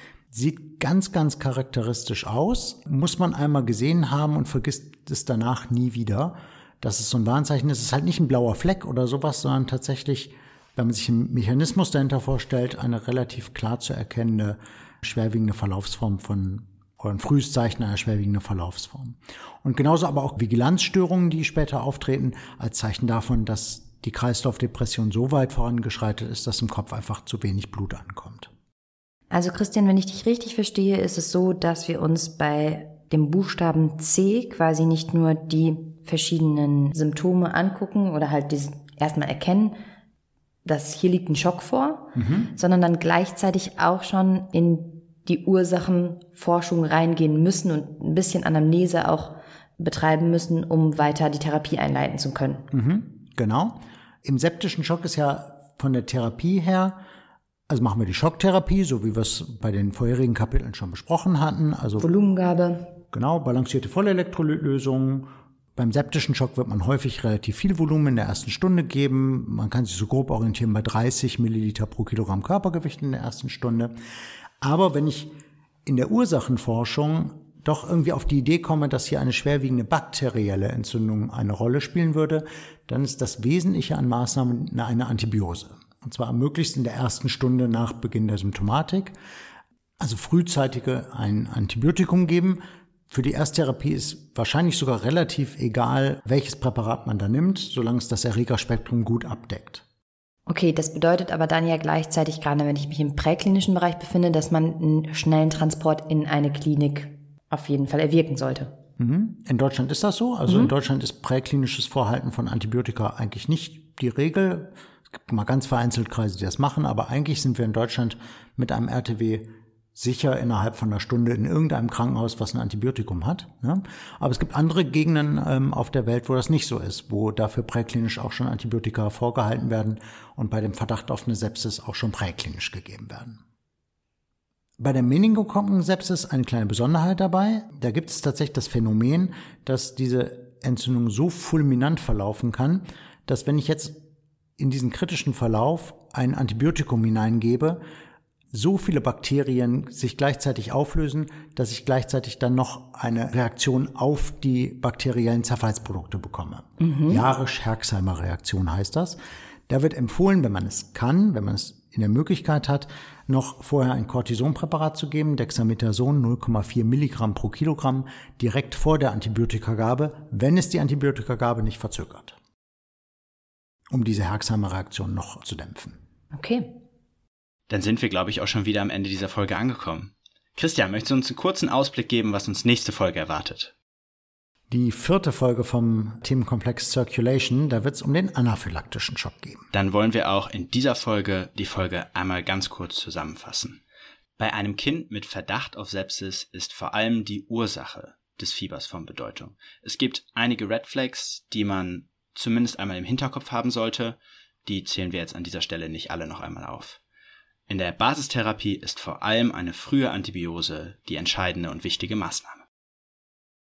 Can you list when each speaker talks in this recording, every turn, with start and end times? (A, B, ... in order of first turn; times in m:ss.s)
0:00.3-0:28.5 A
0:29.3-0:39.8 B
0:40.6-0:52.7 B
0:42.2-0:42.5 A
0:52.7-0:57.0 A
0:57.7-1:02.1 A
1:02.0-1:02.9 B
1:03.1-1:14.0 A
1:14.6-1:15.3 A
1:15.9-1:29.2 A
1:30.0-1:39.8 A
1:40.5-1:48.8 B
1:49.0-2:13.4 A
1:50.5-1:50.7 B
2:14.8-2:24.0 A
2:24.6-2:27.8 A
2:28.5-2:39.2 A
2:36.8-2:37.3 B
2:39.7-2:52.4 A
2:53.9-2:56.0 A
2:56.3-2:56.8 B
2:57.7-3:03.7 C
3:04.7-3:09.6 A
3:09.7-3:13.8 C
3:14.4-3:27.0 C
3:27.7-3:32.6 C